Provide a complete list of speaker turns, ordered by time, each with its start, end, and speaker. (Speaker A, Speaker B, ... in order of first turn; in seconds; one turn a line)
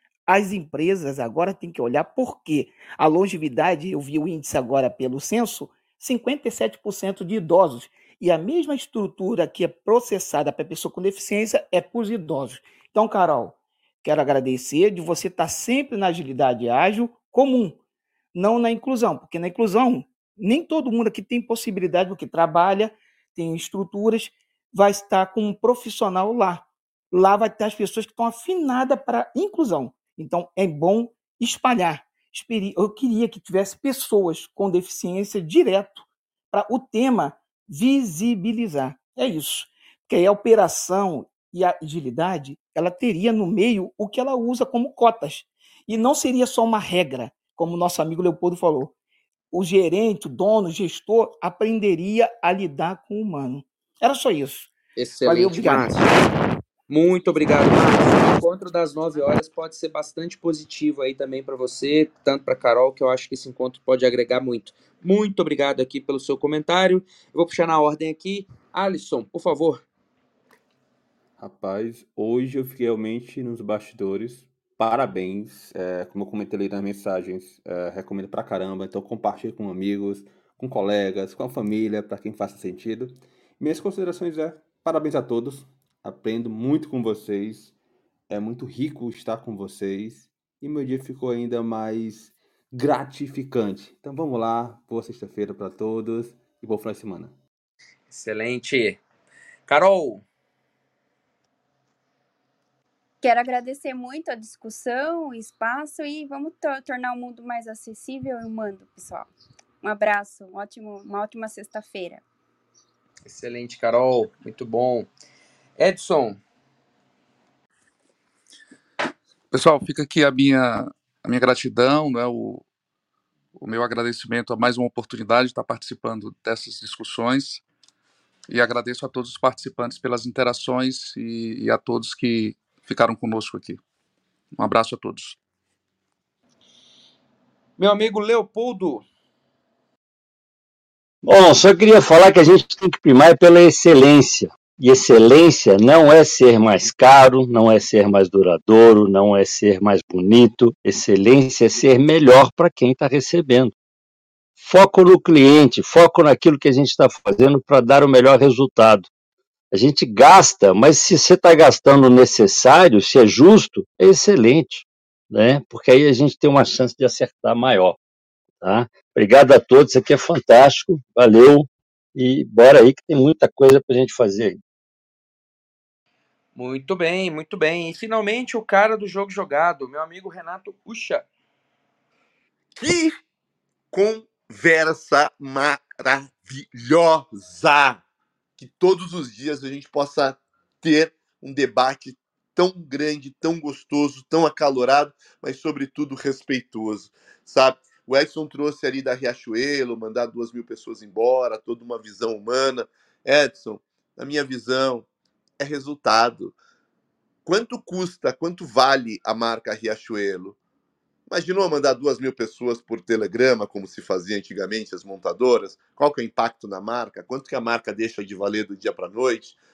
Speaker A: 0.3-17.8
Speaker A: 18.3-48.9
Speaker A: 49.5-54.7
Speaker B: 55.0-56.0
Speaker A: 55.2-56.1
Speaker B: 56.9-69.8
Speaker C: 71.4-87.7
Speaker C: 88.3-97.3
Speaker B: 98.1-99.0
Speaker B: 99.7-100.2
Speaker D: 103.2-109.3
Speaker D: 109.8-112.2
Speaker B: 113.2-115.1
Speaker B: 115.8-116.4
Speaker E: 119.5-122.6
Speaker E: 123.5-127.6
Speaker E: 128.5-133.8
Speaker E: 134.6-135.4
Speaker B: 137.8-139.0
Speaker F: 141.2-153.7
Speaker F: 154.6-159.1
Speaker F: 159.7-168.0
Speaker F: 168.6-174.6
Speaker B: 176.5-181.3
Speaker G: 182.7-183.1
Speaker G: 183.9-188.0
Speaker G: 188.6-205.1
Speaker G: 205.6-206.5
Speaker G: 207.4-210.6
Speaker G: 211.3-219.6